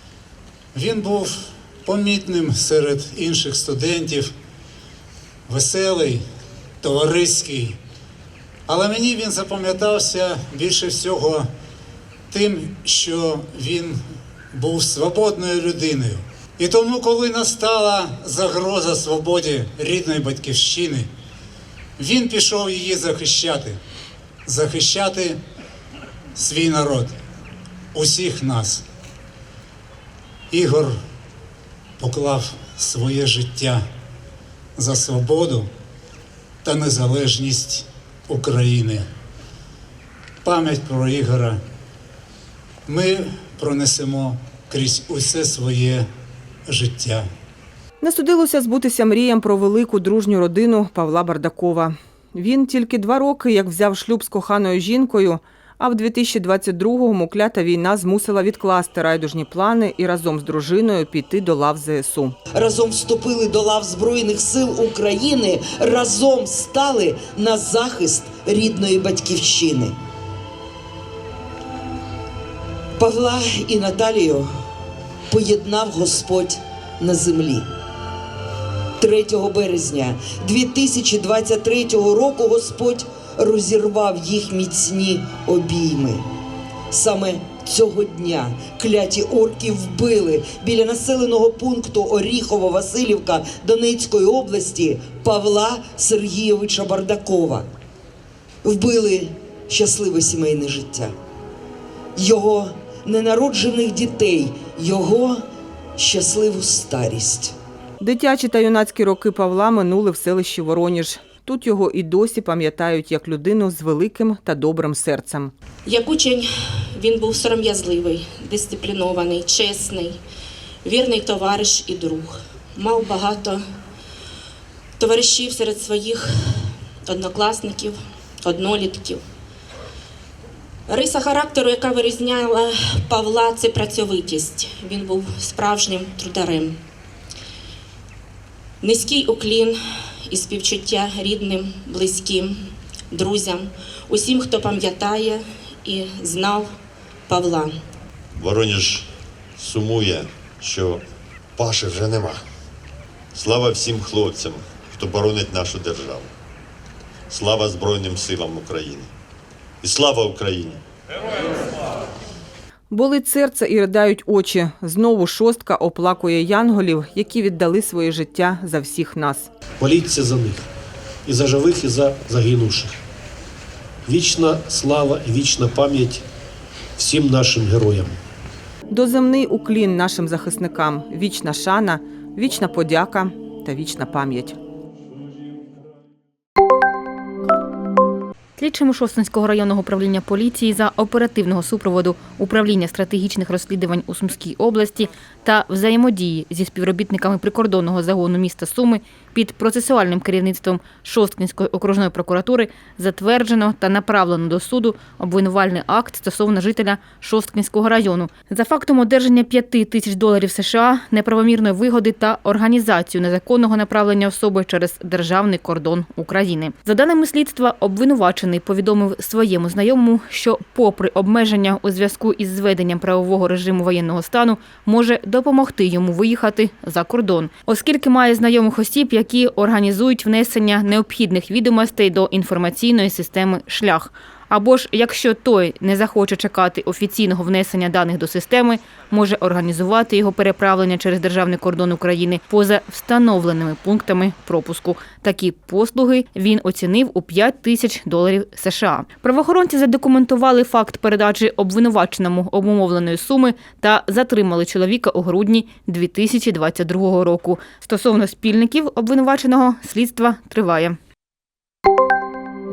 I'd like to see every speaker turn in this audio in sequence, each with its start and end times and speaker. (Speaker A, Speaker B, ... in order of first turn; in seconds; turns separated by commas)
Speaker A: 0.7-4.3, Speaker A: 5.5-6.2, Speaker A: 6.8-7.8, Speaker A: 8.7-11.5, Speaker A: 12.3-14.0, Speaker A: 14.5-21.1, Speaker A: 22.0-23.8, Speaker A: 24.5-25.4, Speaker A: 26.4-27.1, Speaker A: 27.9-28.8, Speaker A: 30.5-30.9, Speaker A: 32.0-33.8, Speaker A: 34.8-35.7, Speaker A: 36.6-39.0, Speaker A: 40.4-41.6, Speaker A: 42.9-46.0, Speaker A: 46.7-47.2, Speaker B: 48.0-62.4, Speaker C: 62.5-70.0, Speaker C: 73.0-74.5, Speaker C: 75.3-77.7, Speaker C: 79.0-86.2, Speaker C: 86.9-97.7, Speaker C: 98.6-101.1, Speaker C: 102.2-105.4, Speaker C: 106.0-107.5, Speaker B: 108.0-115.5, Speaker D: 115.9-120.2, Speaker D: 120.8-123.7, Speaker D: 125.0-129.2, Speaker D: 130.9-136.8, Speaker D: 138.8-146.7, Speaker D: 147.3-147.8, Speaker E: 148.4-149.1, Speaker E: 149.6-151.0, Speaker E: 151.6-152.4, Speaker E: 153.3-156.3, Speaker E: 157.3-159.1, Speaker E: 159.8-160.8, Speaker B: 162.9-169.5, Speaker F: 169.8-170.7, Speaker F: 171.3-173.0, Speaker F: 174.1-176.2, Speaker F: 177.0-178.2, Speaker B: 178.9-184.6, Speaker G: 188.6-261.0